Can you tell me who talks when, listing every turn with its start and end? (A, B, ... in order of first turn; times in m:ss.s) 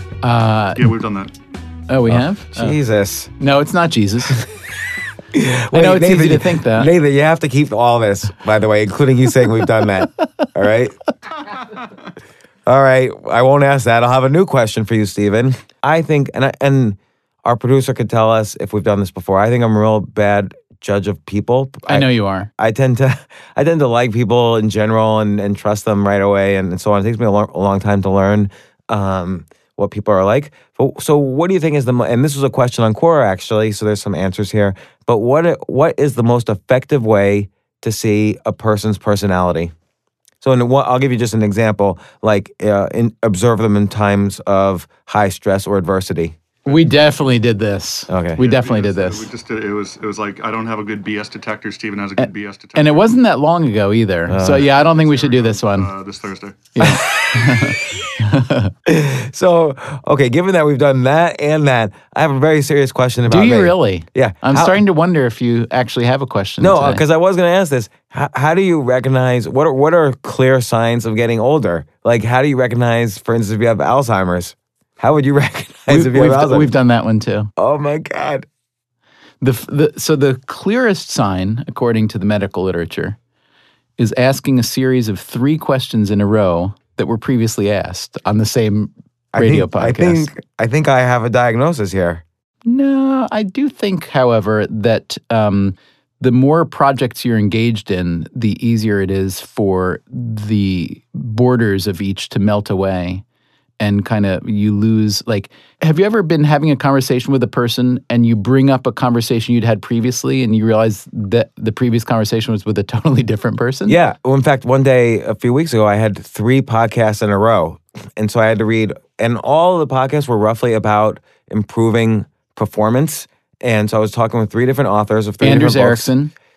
0:00.2-0:00.9 A
0:00.8-0:01.3 B
0:01.9-0:02.8 A
0:02.1-0:03.3 C
0:03.4-0:04.5 A
0:05.3-0:11.0 C
0:05.7-0:06.9 A
0:12.7-0:22.1 C
0:21.9-0:22.5 A
0:22.6-0:39.7 C
0:40.4-0:46.4 C
0:46.6-0:49.3 A
0:48.1-0:48.4 C
0:48.4-0:53.1 B
0:52.2-0:55.9 A
0:54.3-0:54.7 C
0:54.7-0:56.8 B
0:56.8-0:58.7 A
0:56.8-0:57.6 C
0:58.9-1:04.8 C
1:03.3-1:07.0 A
1:06.6-1:16.7 C
1:15.9-1:17.5 A
1:17.6-1:18.5 C
1:19.4-1:23.2 A
1:24.0-1:30.3 A
1:29.3-1:32.2 C
1:32.7-1:43.2 A
1:43.8-1:54.0 A
1:53.9-2:06.1 C
2:05.4-2:06.3 A